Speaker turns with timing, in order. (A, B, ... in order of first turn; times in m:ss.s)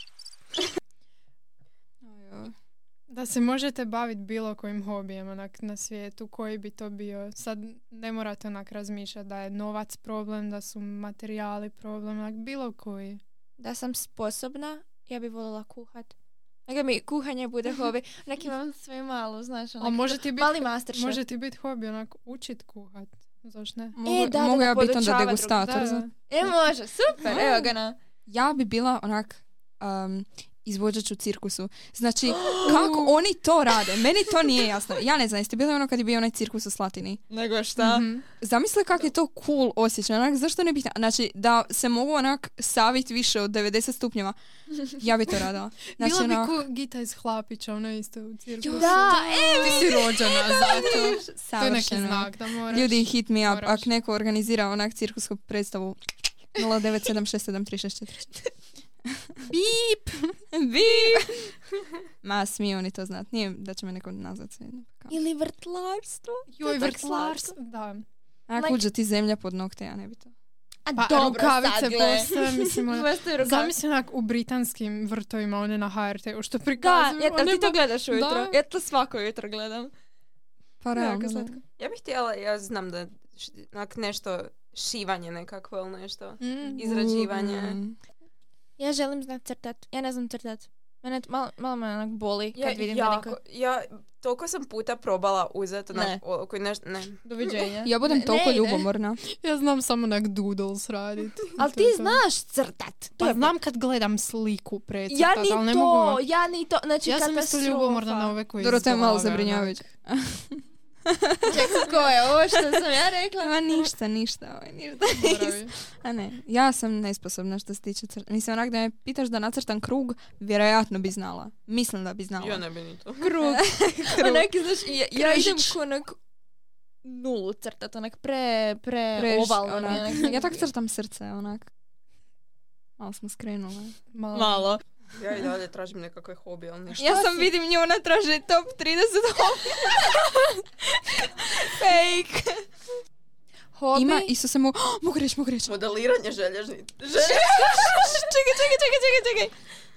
0:02.0-0:02.5 A
0:03.1-0:13.2 B
0:13.6-0:16.1 C
0:16.7-0:21.2 C
0:19.8-0:23.9 B
0:23.9-0:26.1 A
0:24.0-0:25.6 C
0:25.5-0:26.1 B
0:26.3-0:28.0 C
0:27.2-0:27.7 A
0:28.3-0:37.2 A
0:32.3-0:32.8 C
0:32.7-0:33.2 B
0:37.3-0:38.0 C
0:37.8-0:38.2 B
0:38.4-0:44.4 A
0:44.9-0:46.6 A
0:46.0-0:53.9 B
0:48.6-0:51.3 C
0:48.7-0:50.0 A
0:50.7-0:56.0 A
0:56.5-0:58.3 A
0:59.4-1:00.3 B
1:00.5-1:01.5 A
1:02.2-1:05.2 A
1:05.1-1:07.5 C
1:06.5-1:08.0 B
1:08.5-1:10.3 A
1:08.5-1:08.8 C
1:10.8-1:13.7 C
1:11.0-1:18.6 B
1:16.8-1:19.9 C
1:20.8-1:21.6 A
1:20.9-1:21.6 C
1:21.8-1:27.8 D
1:26.4-1:26.9 B
1:26.8-1:28.0 A
1:28.8-1:33.4 C
1:32.5-1:37.2 D
1:35.9-1:36.2 C
1:37.2-1:38.9 C
1:37.8-1:39.2 A
1:39.3-1:42.2 B
1:41.6-1:43.5 C
1:43.2-1:46.2 B
1:45.1-1:48.4 C
1:47.0-1:49.8 B
1:48.6-1:51.9 A
1:51.5-1:53.9 C
1:52.5-1:52.8 A
1:53.4-2:02.6 A
1:55.1-1:55.7 B
2:02.4-2:03.3 D
2:03.2-2:04.5 A
2:03.2-2:06.2 C
2:05.1-2:05.8 A
2:07.0-2:10.6 C
2:09.1-2:11.7 A
2:13.0-2:13.9 A
2:14.1-2:14.7 B
2:14.3-2:14.8 C
2:15.1-2:17.0 D
2:16.9-2:17.5 C
2:16.9-2:22.6 A
2:23.7-2:24.3 C
2:23.9-2:25.8 A
2:25.7-2:28.1 D
2:27.3-2:29.5 A
2:27.7-2:28.1 C